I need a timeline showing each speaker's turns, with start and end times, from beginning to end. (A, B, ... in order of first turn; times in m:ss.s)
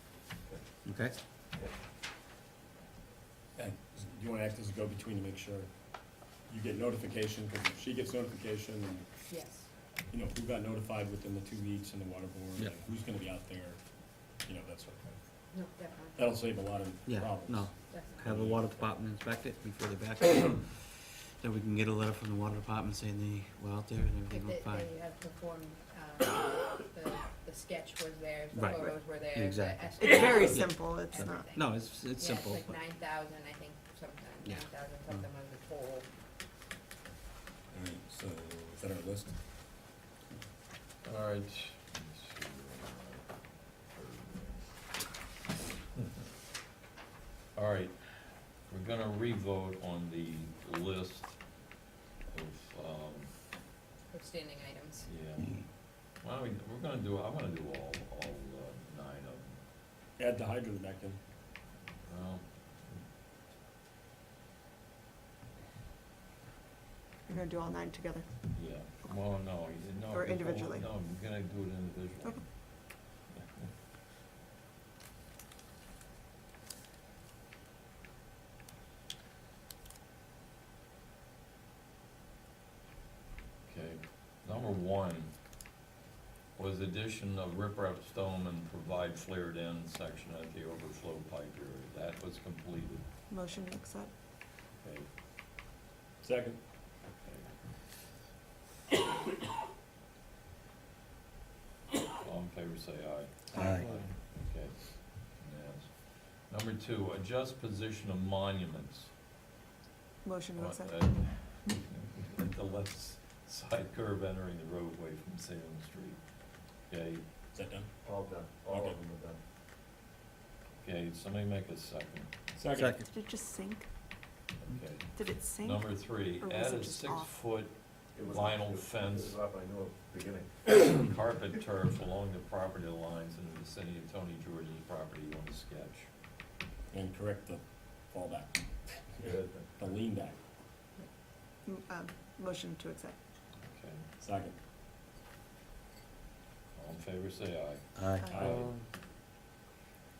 0:00.8-0:01.2 A
0:03.6-0:05.7 B
0:06.5-0:09.1 B
0:09.3-0:09.7 C
0:10.1-0:13.8 B
0:12.5-0:12.9 A
0:14.3-0:15.2 B
0:15.5-0:16.2 C
0:16.2-0:18.9 B
0:17.0-0:24.9 A
0:17.9-0:18.3 C
0:24.3-0:36.1 C
0:28.5-0:32.8 A
0:30.0-0:31.5 D
0:37.7-0:39.3 B
0:41.0-0:43.3 E
0:43.9-0:44.7 E
0:47.5-0:51.4 E
0:52.3-0:53.3 E
0:54.1-0:55.1 C
0:55.0-0:55.6 E
0:56.2-0:59.6 E
1:00.2-1:01.2 B
1:02.1-1:02.4 E
1:07.3-1:08.3 D
1:08.5-1:12.4 E
1:10.1-1:10.9 D
1:13.4-1:13.7 E
1:23.6-1:25.3 E
1:26.5-1:33.0 E
1:33.3-1:34.1 D
1:34.8-1:35.1 E
1:36.2-1:36.6 B
1:37.2-1:37.5 E
1:42.2-1:49.1 E
1:43.5-1:43.9 A
1:50.2-1:51.1 D
1:50.6-1:56.2 E
1:56.9-1:57.2 E
1:57.5-1:57.9 B
1:58.0-1:59.4 F
1:58.6-1:59.0 B
2:00.8-2:02.3 E
2:02.6-2:03.0 B
2:02.7-2:03.0 A
2:03.0-2:03.9 D
2:04.6-2:09.4 E
2:05.1-2:07.4 D
2:08.2-2:10.5 F
2:10.8-2:16.1 E
2:16.9-2:20.4 B
2:21.6-2:23.2 D
2:23.6-2:24.0 E
2:24.2-2:24.6 B
2:26.8-2:27.9 E
2:28.0-2:28.8 A
2:28.2-2:28.5 D
2:28.3-2:28.7 B